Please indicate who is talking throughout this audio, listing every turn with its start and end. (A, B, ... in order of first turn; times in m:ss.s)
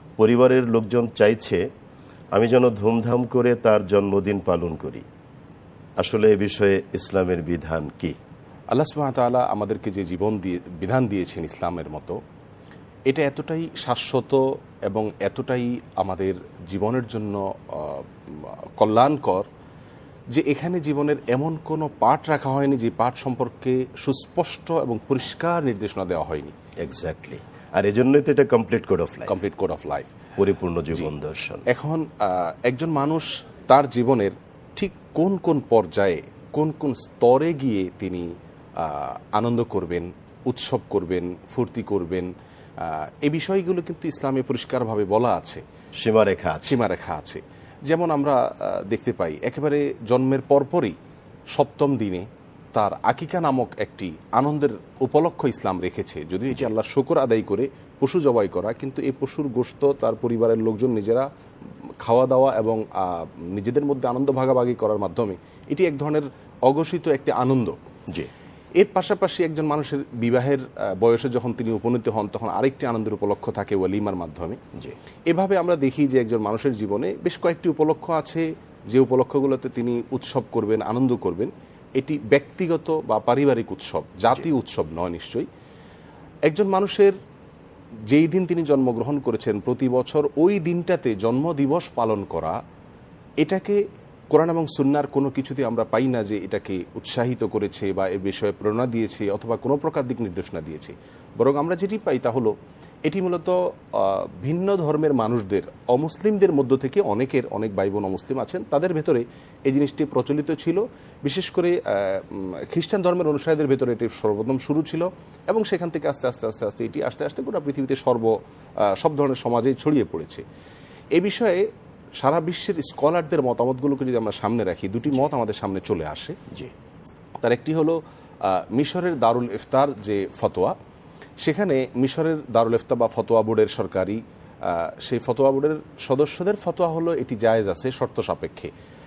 0:00.2-0:01.6 A
0:02.4-0:05.0 A
0:06.0-0:08.2 A
0:08.7-0:12.2 B
0:13.1-0:19.5 B
0:20.3-0:26.5 B
0:26.8-0:29.4 A
0:29.3-0:30.1 B
0:30.4-0:31.7 A
0:31.7-0:45.6 B
0:46.0-0:46.8 A
0:46.6-0:51.0 B
0:51.5-1:01.3 B
1:02.0-1:07.8 B
1:08.8-1:14.6 B
1:15.3-1:25.5 B
1:26.5-1:27.2 B
1:28.1-1:32.6 B
1:33.4-1:42.5 B
1:43.1-2:00.4 B
2:01.2-2:01.6 B
2:02.2-2:06.4 B
2:07.4-2:10.7 B
2:11.4-2:18.7 B